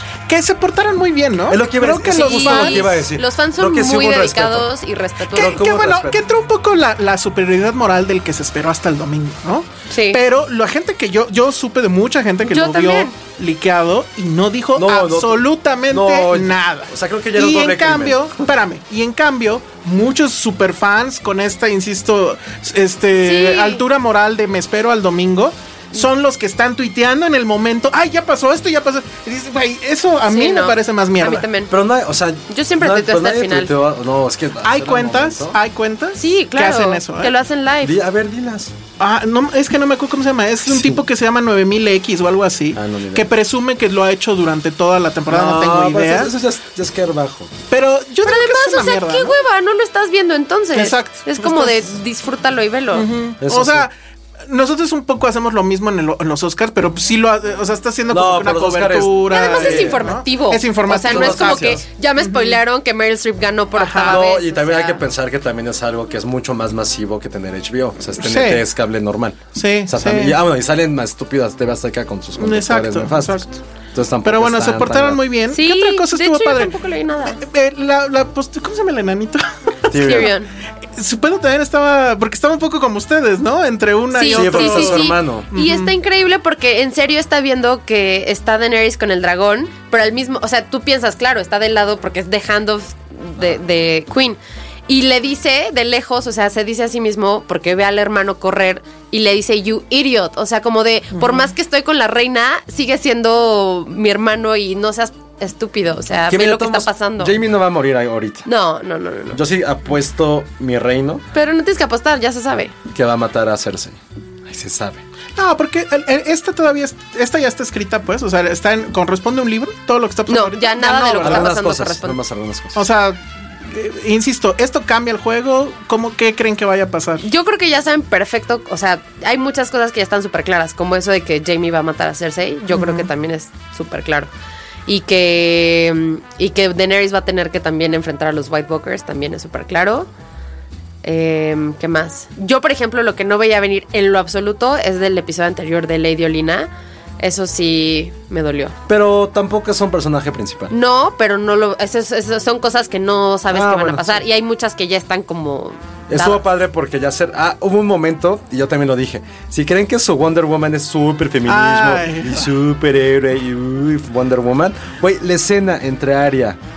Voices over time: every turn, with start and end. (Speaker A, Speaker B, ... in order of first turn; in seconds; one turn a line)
Speaker A: 0.3-3.0
Speaker B: 1.5-4.7
Speaker C: 2.0-5.6
Speaker B: 5.3-6.2
Speaker A: 5.3-31.5
Speaker C: 9.9-10.2
Speaker C: 12.4-13.1
Speaker B: 14.7-18.5
Speaker C: 23.2-23.8
Speaker C: 30.2-31.7
Speaker B: 31.7-35.6
Speaker C: 32.5-33.7
Speaker A: 34.6-37.3
Speaker C: 36.1-37.9
Speaker B: 37.8-38.7
Speaker A: 39.0-46.3
Speaker B: 40.6-41.0
Speaker B: 42.7-43.3
Speaker B: 45.3-47.5
Speaker A: 47.7-49.3
Speaker C: 48.2-53.1
Speaker A: 50.7-51.9
Speaker A: 52.9-53.9
Speaker B: 53.4-53.9
Speaker A: 54.5-62.6
Speaker B: 58.1-60.1
Speaker C: 59.3-65.0
Speaker B: 61.0-61.8
Speaker A: 63.7-64.2
Speaker B: 64.0-75.2
Speaker A: 68.2-68.6
Speaker A: 69.5-70.3
Speaker A: 72.4-73.5
Speaker A: 74.2-76.7
Speaker C: 75.5-77.4
Speaker A: 77.4-80.0
Speaker B: 79.9-80.3
Speaker C: 79.9-80.5
Speaker A: 81.0-85.9
Speaker C: 84.1-107.3
Speaker B: 84.3-85.5
Speaker A: 101.1-101.5
Speaker B: 106.3-108.5
Speaker C: 108.5-109.4
Speaker B: 109.3-111.2
Speaker C: 111.3-112.8
Speaker B: 112.9-115.0
Speaker A: 115.3-121.5
Speaker C: 120.3-122.2
Speaker B: 121.2-122.8
Speaker A: 122.7-127.2
Speaker C: 127.2-134.3
Speaker A: 132.7-133.1
Speaker C: 134.9-140.1
Speaker C: 141.0-148.7
Speaker B: 148.9-150.7
Speaker C: 150.7-156.4
Speaker B: 153.5-154.2
Speaker B: 156.1-166.6
Speaker A: 161.5-162.5